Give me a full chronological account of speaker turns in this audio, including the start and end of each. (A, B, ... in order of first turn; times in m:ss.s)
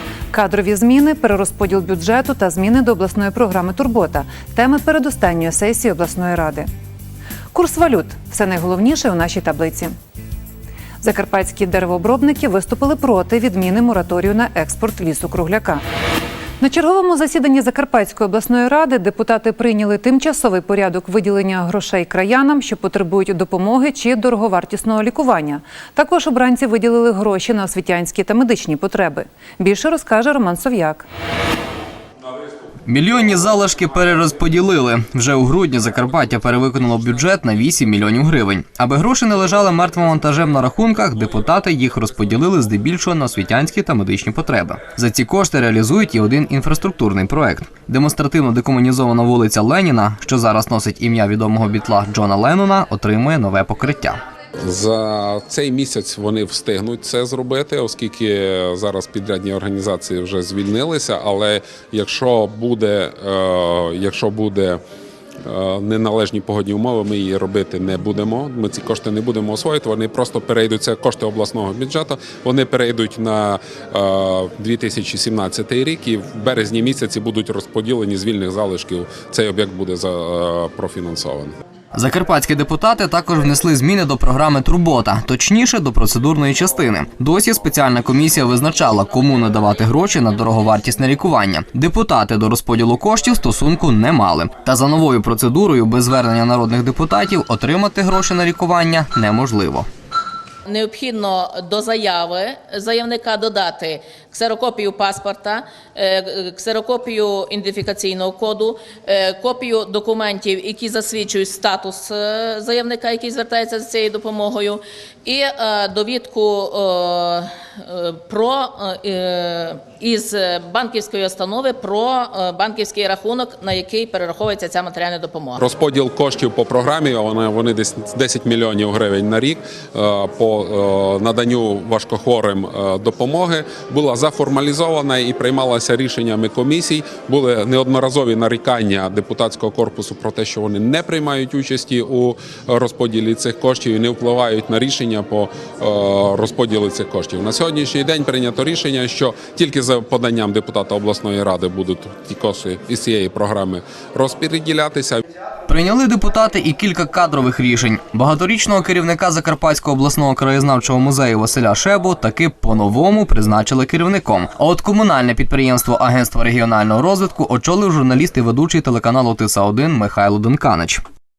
0:00.3-0:06.7 A
0:07.5-0:09.9 A
0:11.0-0:15.8 A
0:16.6-0:31.0 A
0:32.9-0:54.2 B
0:54.6-1:04.8 C
1:05.5-1:21.5 C
1:21.9-1:39.9 B
1:29.3-1:29.8 D
1:40.7-2:05.6 D
2:05.6-2:35.2 C
2:35.7-2:51.0 B